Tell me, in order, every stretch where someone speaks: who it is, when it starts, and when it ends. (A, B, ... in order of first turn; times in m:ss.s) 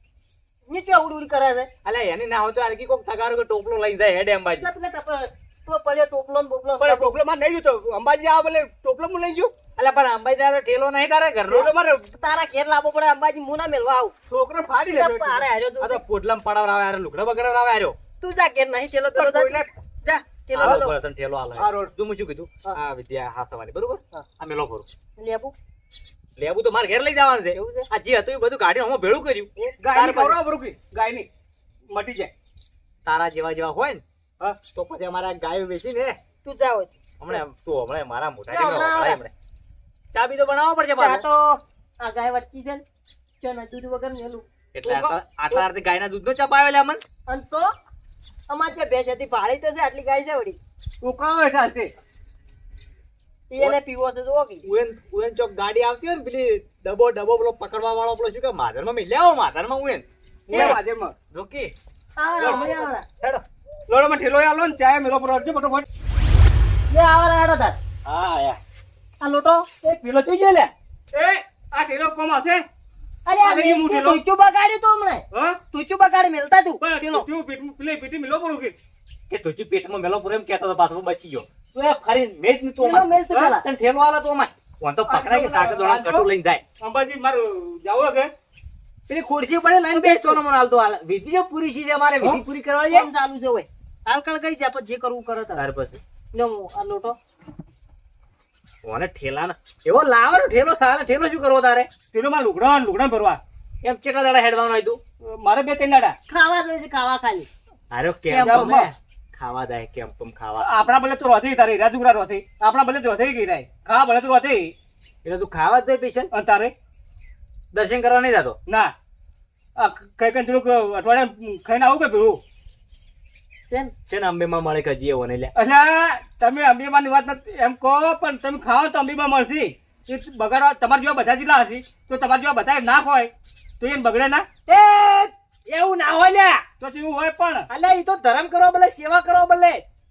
0:00.7-0:01.7 A
0:01.8-0:04.7 B
0:04.6-0:07.1 A
0:06.8-0:09.5 C
0:09.8-0:11.7 B
0:11.5-0:12.2 C
0:12.2-0:14.1 A
0:14.3-0:15.5 C
0:14.9-0:16.0 A
0:15.8-0:18.0 B
0:18.2-0:20.9 A
0:19.2-0:19.6 B
0:19.3-0:19.6 C
0:20.6-0:24.9 B
0:21.6-0:21.9 C
0:25.2-0:25.6 A
0:26.4-0:30.4 B
0:27.5-0:27.9 A
0:29.8-0:31.3 C
0:31.9-0:32.3 C
0:33.0-0:34.0 B
0:34.5-0:36.2 B
0:36.4-0:37.0 A
0:37.2-0:39.3 B
0:38.5-0:39.2 A
0:40.1-0:41.2 B
0:41.0-0:42.8 A
0:43.4-0:44.4 A
0:44.7-0:47.0 B
0:44.9-0:45.6 C
0:47.3-0:47.7 A
0:48.5-0:50.6 A
0:51.0-0:51.9 C
0:53.5-0:54.7 A
0:54.6-1:00.8 B
1:00.5-1:00.8 A
1:00.5-1:01.2 C
1:01.3-1:01.7 B
1:02.2-1:03.0 A
1:02.4-1:03.4 B
1:02.4-1:02.8 C
1:03.9-1:05.8 C
1:06.9-1:07.8 A
1:08.1-1:08.6 B
1:09.2-1:09.7 A
1:09.8-1:10.7 B
1:11.1-1:12.6 C
1:13.3-1:17.2 A
1:13.4-1:14.2 C
1:15.3-1:15.6 C
1:16.8-1:18.8 C
1:19.3-1:26.6 B
1:22.8-1:23.6 A
1:25.1-1:26.3 C
1:26.8-1:28.3 C
1:29.1-1:33.1 B
1:29.9-1:30.4 A
1:32.9-1:35.6 A
1:35.6-1:36.0 B
1:36.3-1:37.2 A
1:38.8-1:41.9 B
1:42.1-1:43.4 C
1:43.8-1:45.0 B
1:45.2-1:46.2 C
1:46.3-1:47.5 A
1:47.9-1:50.7 B
1:48.3-1:48.9 A
1:48.4-1:48.9 C
1:50.6-1:54.7 C
1:55.2-1:56.3 B
1:56.3-1:56.7 C
1:57.7-1:58.6 B
1:58.7-1:58.9 C
1:59.8-2:02.4 C
2:03.7-2:03.9 A
2:04.1-2:05.5 B
2:05.6-2:14.5 C
2:14.7-2:16.7 B
2:16.8-2:17.7 C
2:17.7-2:19.8 B